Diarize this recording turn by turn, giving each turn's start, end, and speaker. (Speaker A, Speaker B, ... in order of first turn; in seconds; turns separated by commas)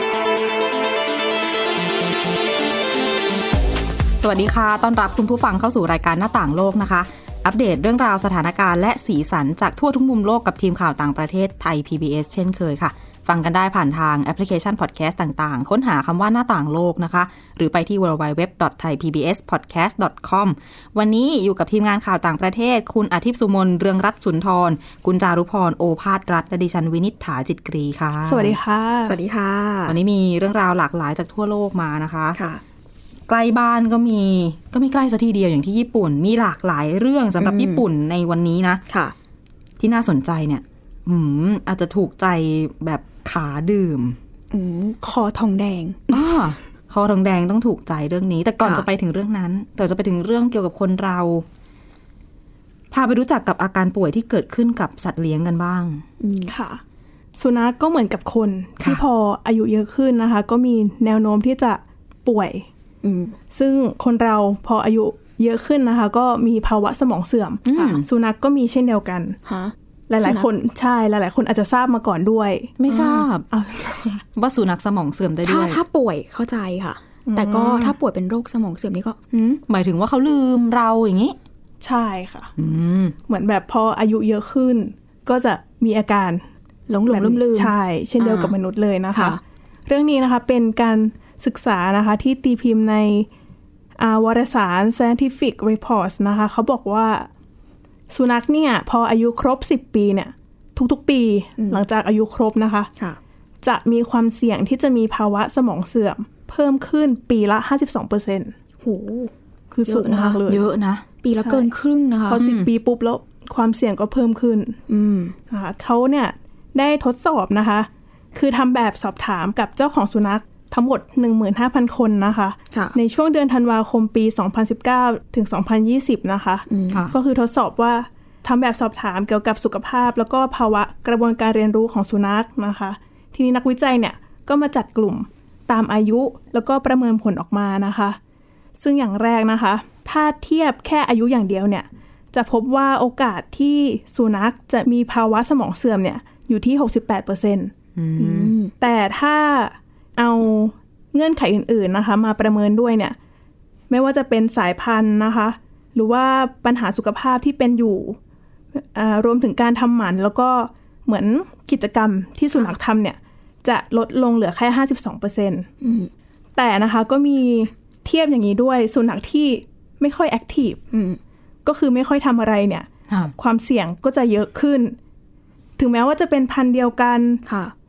Speaker A: 4.2-28.6, Speaker B: 28.2-29.2, Speaker C: 29.0-30.0, Speaker A: 29.9-32.4, Speaker C: 32.3-32.6, Speaker A: 33.3-38.8, Speaker C: 37.4-37.8, Speaker C: 38.9-39.1, Speaker A: 39.8-44.2, Speaker C: 44.5-46.3, Speaker A: 46.1-51.4, Speaker A: 52.9-56.0, Speaker C: 56.2-56.5, Speaker B: 56.5-56.8, Speaker B: 57.3-62.6, Speaker C: 63.0-63.4, Speaker B: 63.5-69.4, Speaker A: 67.7-68.0, Speaker C: 69.5-70.5, Speaker B: 70.1-74.2, Speaker A: 72.8-73.4, Speaker A: 74.3-75.8, Speaker C: 75.4-79.6, Speaker B: 77.3-78.0, Speaker A: 79.7-81.4, Speaker B: 81.8-82.5, Speaker A: 82.6-83.2, Speaker B: 83.3-86.4, Speaker C: 86.9-88.5, Speaker B: 87.1-93.3, Speaker C: 89.1-89.4, Speaker B: 94.0-97.3, Speaker B: 98.1-102.9, Speaker C: 101.6-101.8, Speaker B: 103.6-108.5, Speaker C: 108.8-109.3, Speaker B: 109.7-110.6, Speaker C: 109.8-110.4, Speaker A: 110.5-111.0, Speaker C: 111.2-112.4, Speaker B: 111.4-111.7, Speaker B: 112.2-114.8, Speaker A: 112.4-112.7, Speaker C: 114.9-115.3, Speaker B: 115.5-138.2, Speaker C: 126.7-127.0, Speaker B: 138.8-147.7, Speaker A: 147.9-148.5, Speaker C: 148.2-148.7, Speaker B: 148.8-153.2, Speaker B: 153.9-158.2, Speaker B: 158.7-165.7, Speaker C: 165.8-166.1, Speaker B: 166.6-170.8, Speaker C: 170.9-171.2, Speaker B: 171.6-174.9, Speaker A: 173.1-173.3, Speaker B: 175.8-177.4, Speaker C: 177.4-177.7